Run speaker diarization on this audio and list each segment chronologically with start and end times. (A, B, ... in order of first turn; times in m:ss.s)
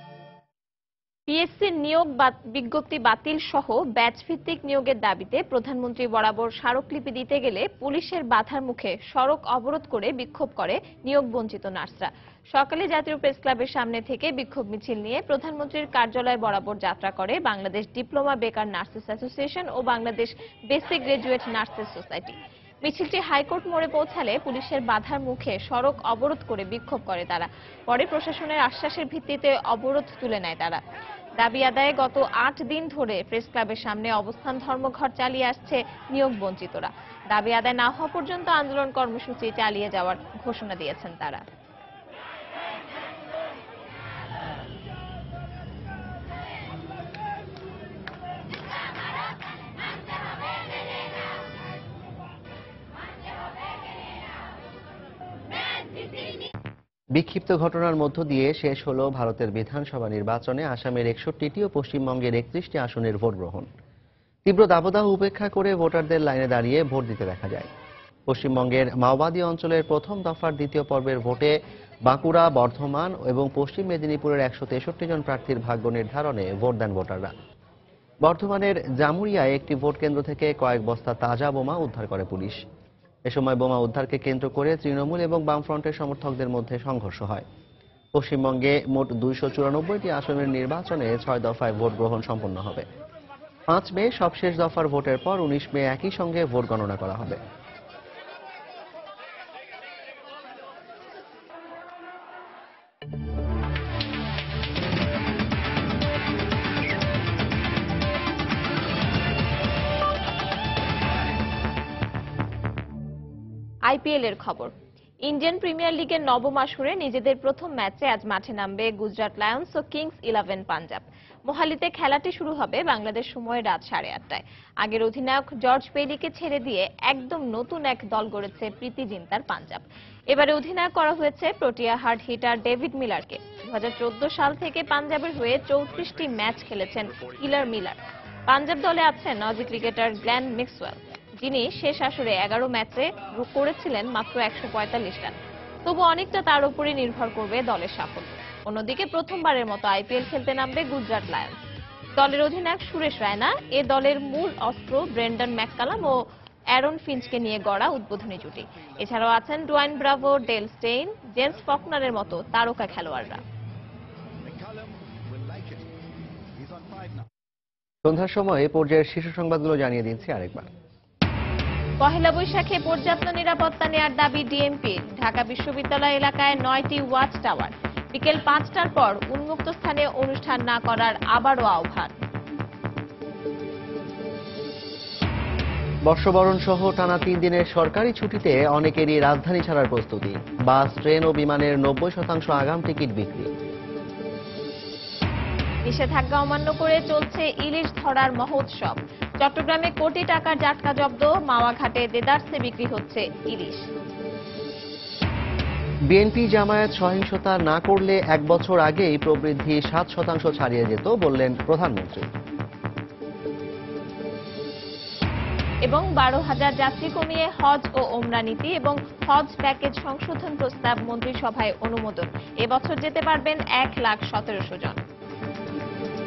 0:01.3-0:30.8 A
0:31.4-0:41.4 A
0:57.1-1:03.7 B
1:04.4-1:07.7 B
1:08.3-1:17.3 B
1:18.2-1:22.6 B
1:23.3-1:27.4 B
1:28.1-1:32.8 B
1:33.7-1:37.4 B
1:53.9-1:54.7 A
1:55.2-2:18.0 A
2:18.5-2:31.6 A
2:32.2-2:36.1 A
2:36.7-2:43.4 A
2:48.0-2:50.7 B
2:52.0-3:02.1 A
3:06.1-3:13.5 B
3:15.8-3:23.8 A
3:26.1-3:32.3 B
3:35.8-3:45.0 A